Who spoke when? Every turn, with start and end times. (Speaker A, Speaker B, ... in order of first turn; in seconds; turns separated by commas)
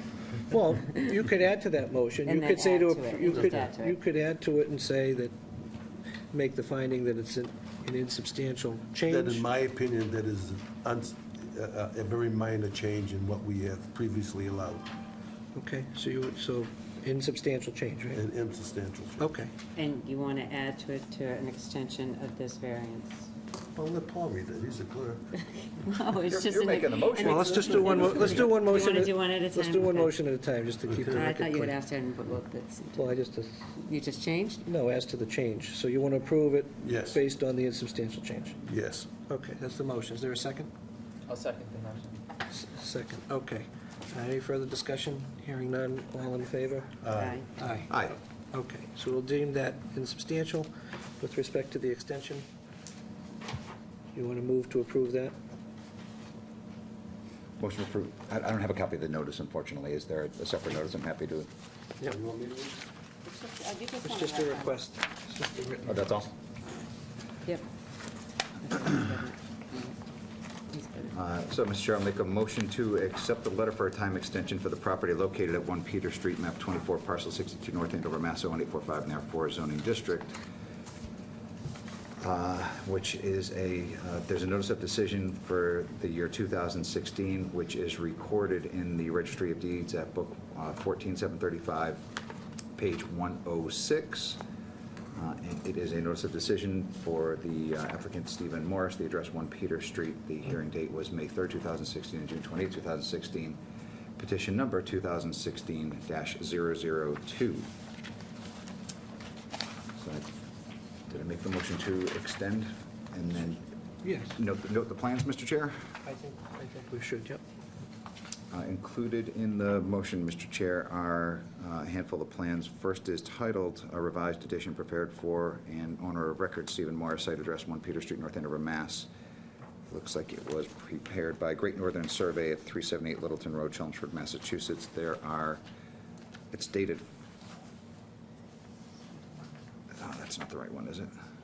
Speaker A: 0.5-5.4, Speaker B: 2.2-4.0, Speaker A: 6.3-9.5, Speaker C: 9.1-14.9, Speaker A: 15.6-18.2, Speaker C: 18.1-19.3, Speaker A: 19.2-19.5, Speaker B: 19.8-23.3, Speaker C: 23.8-25.2, Speaker B: 25.8-30.2, Speaker D: 26.3-28.6, Speaker A: 27.2-31.8, Speaker C: 30.9-31.3, Speaker B: 31.1-33.2, Speaker A: 33.0-33.6, Speaker B: 33.7-34.6, Speaker A: 34.7-38.6, Speaker C: 36.8-37.2, Speaker C: 38.6-39.1, Speaker A: 39.3-40.7, Speaker A: 42.5-47.0, Speaker C: 47.0-47.5, Speaker B: 47.2-47.5, Speaker A: 47.6-48.0, Speaker D: 47.9-48.2, Speaker A: 48.5-52.5, Speaker A: 54.1-55.4, Speaker D: 57.6-61.5, Speaker C: 62.1-62.8, Speaker B: 63.2-64.8, Speaker A: 64.0-66.2, Speaker D: 65.9-66.3, Speaker B: 68.6-70.0, Speaker B: 70.7-71.2, Speaker D: 71.1-80.4, Speaker D: 82.2-92.0, Speaker D: 92.8-94.4, Speaker D: 95.2-103.6, Speaker D: 104.2-107.7, Speaker D: 110.0-110.3, Speaker D: 111.1-113.7, Speaker A: 114.0-114.4, Speaker D: 114.4-115.7, Speaker A: 116.0-117.4, Speaker D: 118.5-129.1, Speaker D: 129.9-135.6, Speaker D: 136.5-137.0, Speaker D: 139.9-141.1